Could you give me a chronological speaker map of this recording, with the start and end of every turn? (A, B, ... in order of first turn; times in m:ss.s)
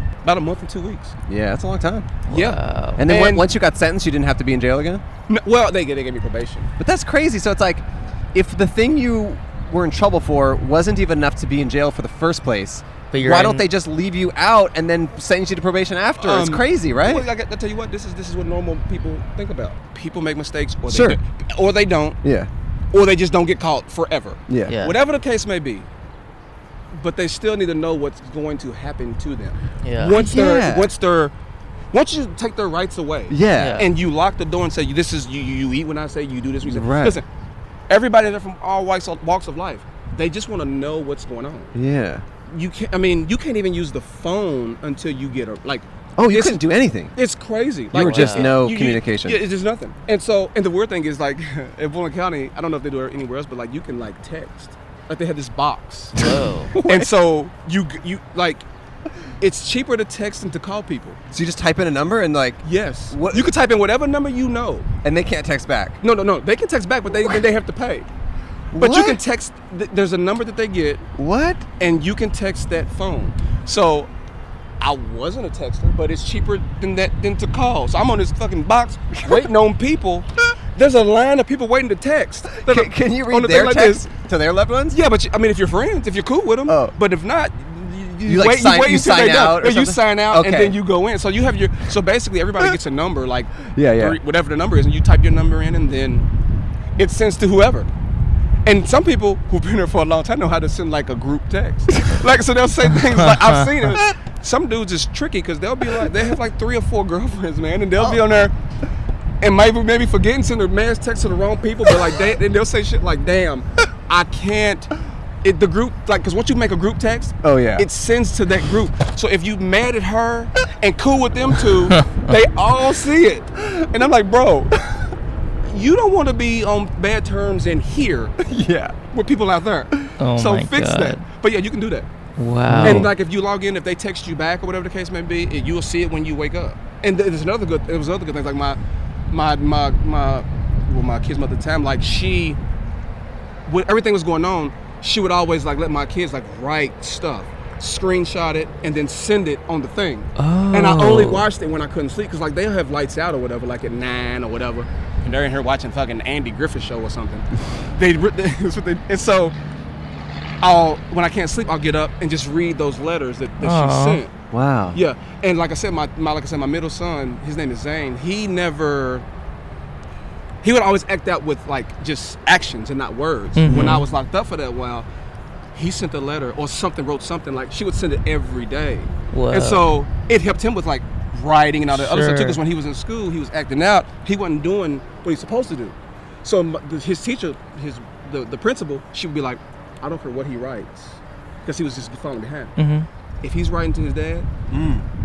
0:00.2-0:01.1 A
0:01.3-0:02.1 B
0:02.3-0:03.0 C
0:02.3-0:03.4 A
0:03.0-0:05.0 B
0:05.3-0:06.7 A
0:06.8-0:17.3 B
0:13.1-0:13.6 C
0:16.2-0:22.2 A
0:20.9-0:21.2 B
0:22.2-0:22.5 B
0:22.9-0:25.9 A
0:24.5-0:24.8 B
0:24.7-0:25.0 C
0:26.9-0:31.3 A
0:29.8-0:30.3 C
0:30.1-0:30.9 B
0:31.9-0:37.2 A
0:33.3-0:33.8 B
0:33.5-0:33.9 C
0:36.6-0:37.2 B
0:37.9-0:41.7 A
0:41.7-0:42.2 B
0:42.5-0:46.6 A
0:46.2-0:47.1 B
0:47.1-0:56.2 A
0:47.9-0:49.4 B
0:47.9-0:48.5 C
0:56.2-0:56.7 C
0:56.2-0:57.1 B
0:56.8-0:58.6 A
0:59.4-1:01.2 A
1:01.3-1:03.5 B
1:02.6-1:04.9 A
1:05.0-1:06.0 B
1:06.0-1:08.1 A
1:08.7-1:09.2 B
1:08.8-1:11.0 A
1:11.2-1:11.6 B
1:11.8-1:14.1 A
1:14.8-1:24.1 A
1:22.6-1:25.0 B
1:24.9-1:36.2 A
1:26.7-1:26.9 B
1:28.2-1:30.8 B
1:33.7-1:34.2 B
1:37.0-1:37.9 A
1:38.6-1:48.5 A
1:49.4-2:04.8 A
1:57.4-1:57.9 B
2:01.9-2:02.3 C
2:05.6-2:08.4 A
2:08.4-2:08.9 B
2:09.1-2:12.1 A
2:10.2-2:11.2 C
2:12.4-2:13.1 C
2:12.7-2:13.1 B
2:12.8-2:18.8 A
2:19.3-2:22.6 A
2:23.6-2:39.5 A
2:30.4-2:31.4 C
2:40.6-2:44.4 A
2:43.6-2:44.2 C
2:44.5-2:45.0 B
2:44.9-2:49.2 A
2:50.6-2:55.1 A
2:53.6-2:54.0 C
2:53.6-2:54.0 B
2:55.8-3:12.7 A
2:59.3-2:59.8 C
3:01.9-3:02.6 C
3:12.8-3:13.1 C
3:13.4-3:14.5 A
3:14.7-3:15.1 B